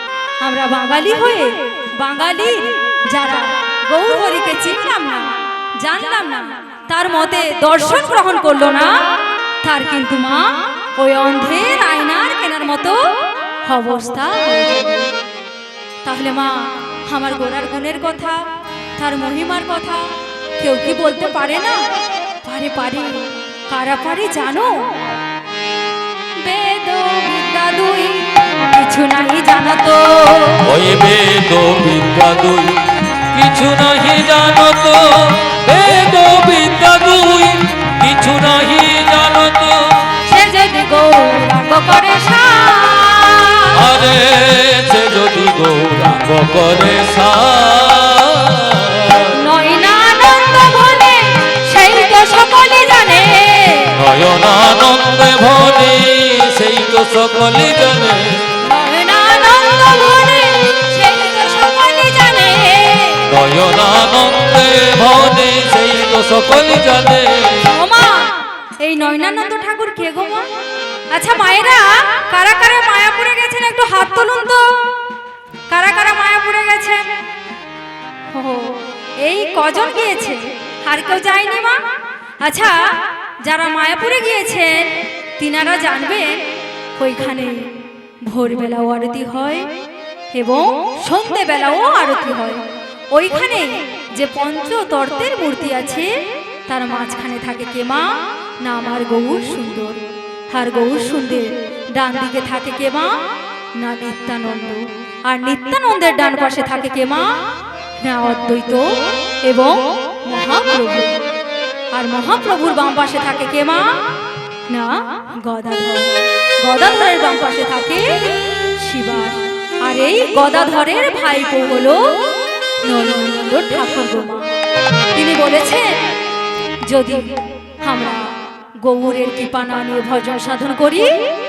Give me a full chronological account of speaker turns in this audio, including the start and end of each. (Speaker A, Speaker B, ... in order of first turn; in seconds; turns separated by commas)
Speaker A: 0.4-8.9, Speaker A: 9.6-13.0, Speaker A: 13.7-15.1, Speaker A: 16.1-18.4, Speaker A: 19.0-20.0, Speaker A: 20.6-21.8, Speaker A: 22.4-24.8, Speaker A: 26.4-30.7, Speaker B: 30.6-32.8, Speaker B: 33.3-40.1, Speaker A: 40.3-43.8, Speaker B: 43.7-49.4, Speaker A: 49.3-54.0, Speaker B: 53.9-58.6, Speaker A: 58.6-63.3, Speaker B: 63.3-67.7, Speaker A: 67.7-68.3, Speaker A: 68.8-70.4, Speaker A: 71.1-74.6, Speaker A: 75.7-77.0, Speaker A: 78.3-81.8, Speaker A: 82.4-82.8, Speaker A: 83.4-84.8, Speaker A: 85.4-86.3, Speaker A: 87.0-87.6, Speaker A: 88.2-89.7, Speaker A: 90.3-92.6, Speaker A: 93.1-96.1, Speaker A: 96.7-98.1, Speaker A: 98.6-103.1, Speaker A: 103.8-107.3, Speaker A: 108.0-111.2, Speaker A: 111.9-114.0, Speaker A: 114.7-118.2, Speaker A: 118.8-122.0, Speaker A: 122.8-124.5, Speaker A: 125.2-126.0, Speaker A: 126.8-128.3, Speaker A: 128.8-131.1